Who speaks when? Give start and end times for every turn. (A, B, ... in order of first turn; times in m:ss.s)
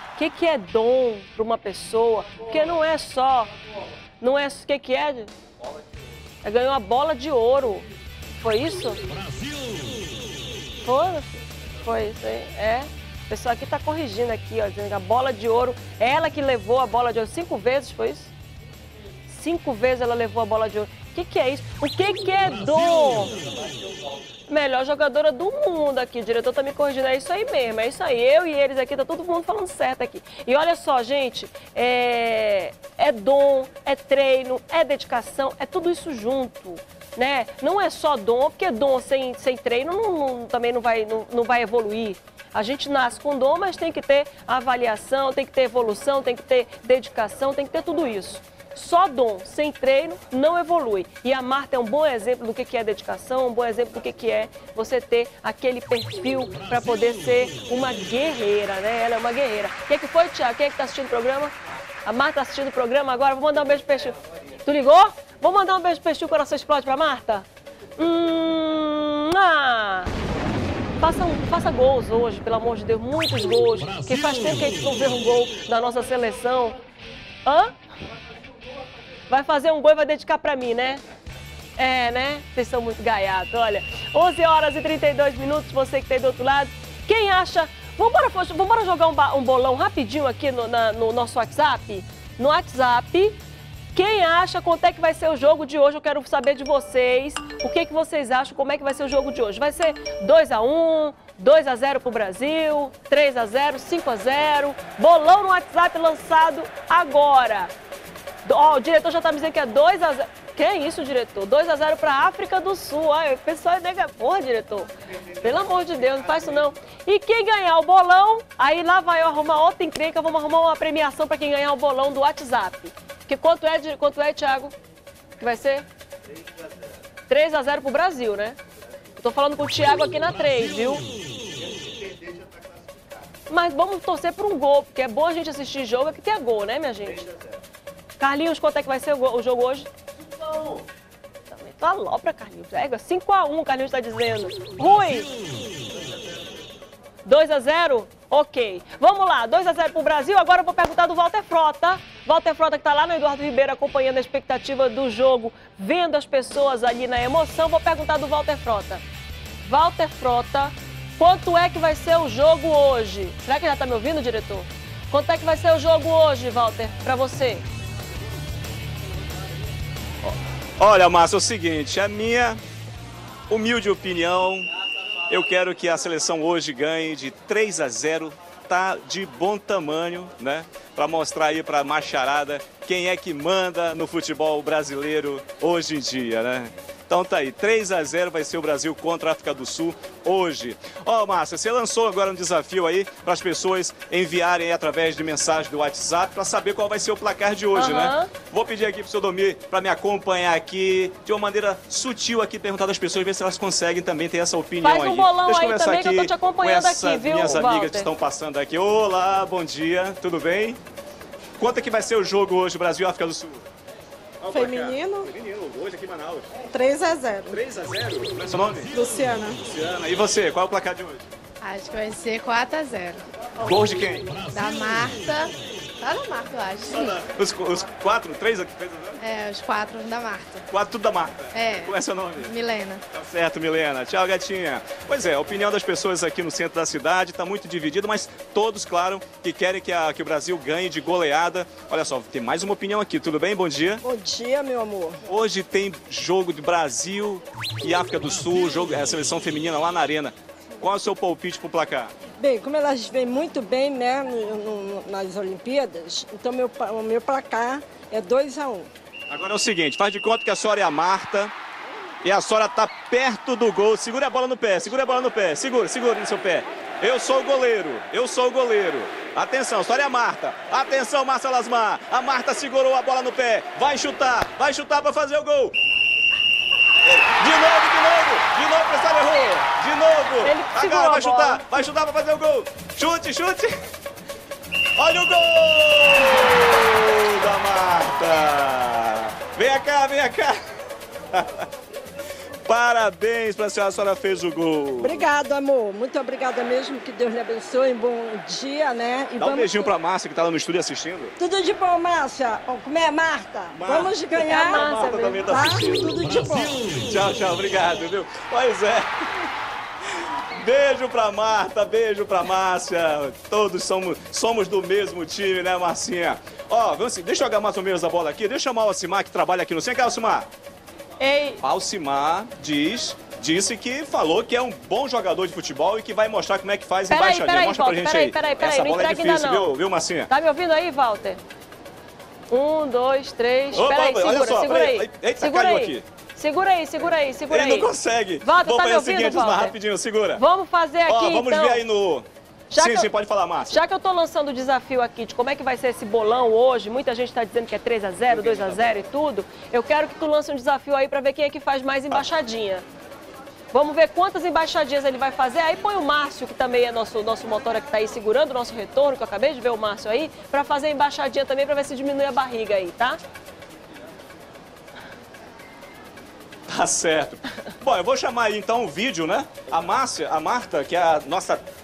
0:00.2-0:03.5 A
0:04.2-0:05.3 A
0:06.4-0:07.9 A
0:08.4-0:09.0 A
0:10.8-0:18.3 A
0:19.3-0:23.4 A
0:24.5-1:01.5 A
1:02.1-1:07.5 A
1:08.0-1:10.1 A
1:11.0-1:16.8 A
1:17.5-1:17.7 A
1:19.3-1:21.0 A
1:21.8-1:33.4 A
1:33.9-1:47.7 A
1:48.4-2:04.7 A
2:05.4-2:05.8 A
2:07.3-2:08.6 A
2:09.2-2:11.0 A
2:13.5-2:17.3 A
2:18.2-2:19.9 A
2:21.5-2:25.3 A
2:27.2-2:39.0 A
2:39.6-2:47.6 A
2:50.3-2:52.6 B
2:53.5-2:54.7 B
2:55.3-3:30.8 B
3:17.7-3:18.3 A
3:24.8-3:28.1 A
3:31.6-3:33.7 B
3:34.4-3:36.5 B
3:34.5-3:35.3 C
3:36.7-3:37.6 C
3:37.5-3:38.9 B
3:38.9-3:39.6 C
3:39.6-3:41.3 B
3:41.6-3:43.2 D
3:43.6-3:44.5 B
3:44.5-3:47.2 D
3:46.9-3:49.2 B
3:49.2-3:50.6 D
3:50.7-3:52.6 B
3:51.5-3:53.0 D
3:53.1-4:04.0 B
4:04.0-4:05.2 C
4:05.3-4:12.1 B
4:12.4-4:18.9 C
4:19.3-4:21.5 B
4:22.2-4:35.8 B
4:37.0-4:43.7 B
4:40.4-4:41.8 A
4:45.0-4:50.6 B
4:51.3-4:51.7 B
4:52.7-4:55.2 B
4:55.0-4:59.9 C
4:59.4-5:01.3 B
5:01.4-5:04.9 C
5:03.8-5:06.4 B
5:04.4-5:05.4 A
5:05.4-5:06.9 C
5:07.0-5:09.2 B
5:10.6-5:20.5 B
5:21.2-5:21.6 A
5:21.6-5:30.3 B
5:27.1-5:29.7 A
5:30.3-5:31.4 A
5:32.5-5:37.9 A
5:33.7-5:36.0 B
5:37.5-5:40.4 B
5:38.4-5:39.8 A
5:40.4-5:41.8 A
5:41.1-5:43.8 B
5:42.7-5:43.1 A
5:43.7-5:52.8 A
5:48.3-5:49.0 B
5:53.7-6:03.2 A
6:06.7-6:11.6 B